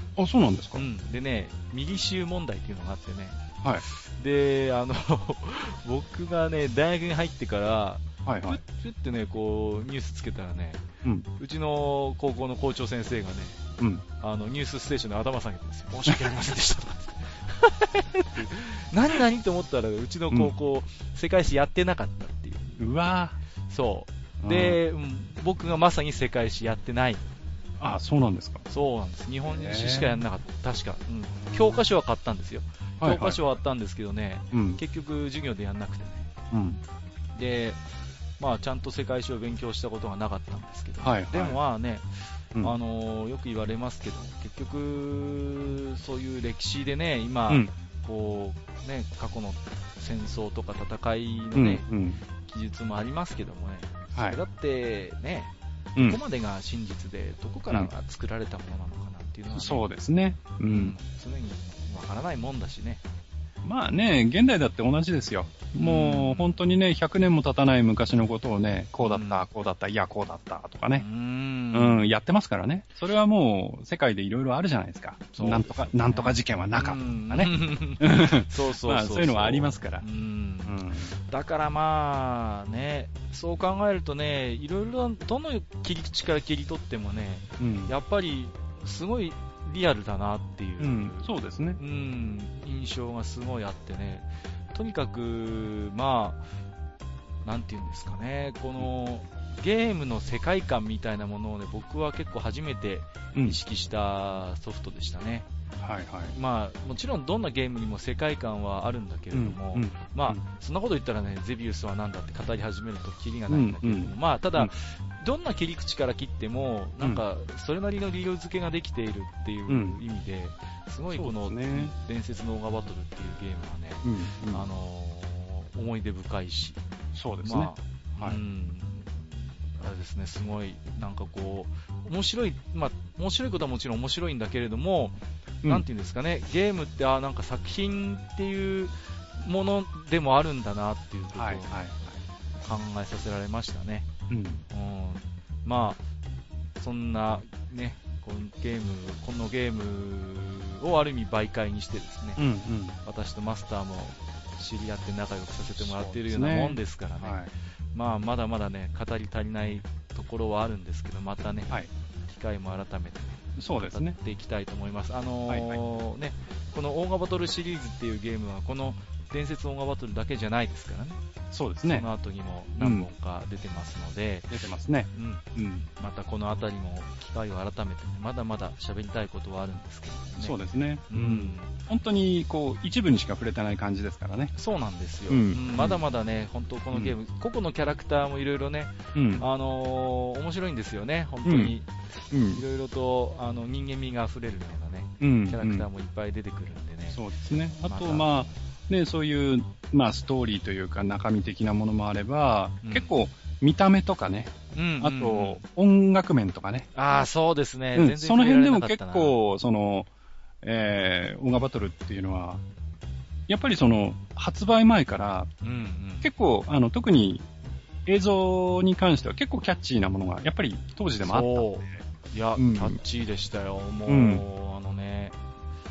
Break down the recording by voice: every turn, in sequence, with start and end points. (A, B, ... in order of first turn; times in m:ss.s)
0:00.2-0:00.8 A
0:00.7-0:10.8 B
0:08.2-0:08.6 A
0:11.4-0:13.6 B
0:13.8-0:14.0 A
0:14.2-0:22.8 B
0:22.8-0:23.4 A
0:23.7-0:27.2 B
0:24.4-0:24.8 A
0:27.8-0:28.6 A
0:28.7-0:36.3 B
0:29.4-0:30.2 A
0:31.4-0:31.8 A
0:33.0-0:33.4 A
0:34.5-0:34.8 A
0:36.5-0:36.8 A
0:37.3-0:37.8 B
0:38.4-0:51.8 B
0:41.0-0:41.6 A
0:51.5-0:52.2 A
0:52.4-0:59.8 B
0:59.5-1:00.9 A
1:00.6-1:03.0 B
1:03.6-1:11.0 A
1:05.8-1:06.6 B
1:09.0-1:09.4 B
1:11.0-1:12.1 B
1:11.7-1:20.0 A
1:15.3-1:36.4 B
1:20.6-1:21.2 A
1:27.6-1:27.9 A
1:30.8-1:31.8 A
1:37.4-1:45.5 B
1:45.8-1:46.3 A
1:46.3-2:06.8 B
1:49.3-1:50.4 A
1:53.5-1:54.7 A
1:59.7-2:00.0 A
2:01.1-2:01.9 A
2:04.0-2:04.7 A
2:07.1-2:08.4 A
2:07.4-2:21.8 B
2:21.3-2:22.2 A
2:22.6-2:24.1 B
2:24.3-2:24.6 A
2:24.7-2:26.0 B
2:26.8-2:32.4 B
2:32.4-2:33.0 A
2:33.0-2:37.4 B
2:35.8-2:37.5 A
2:37.9-2:41.8 B
2:42.3-2:51.2 B
2:43.6-2:44.2 A
2:45.5-2:45.8 A
2:51.5-2:52.1 A
2:51.8-2:54.6 B
2:52.8-2:53.1 A
2:54.5-2:55.8 A
2:55.1-3:00.6 B
3:00.4-3:04.5 A
3:01.1-3:01.7 B
3:04.6-3:11.9 B
3:05.3-3:06.0 A
3:09.1-3:09.4 A
3:11.4-3:11.7 A
3:12.3-3:12.6 A
3:12.4-3:17.2 B
3:15.2-3:15.9 A
3:17.1-3:27.2 A
3:17.9-3:18.5 B
3:22.8-3:23.1 B
3:24.7-3:25.6 B
3:26.9-3:29.4 B
3:27.9-3:30.1 A
3:30.6-3:32.6 A
3:33.5-3:35.5 A
3:35.6-3:36.3 B
3:36.2-3:37.5 A
3:38.0-3:41.9 A
3:41.2-3:45.4 B
3:42.6-3:43.0 A
3:44.0-3:44.4 A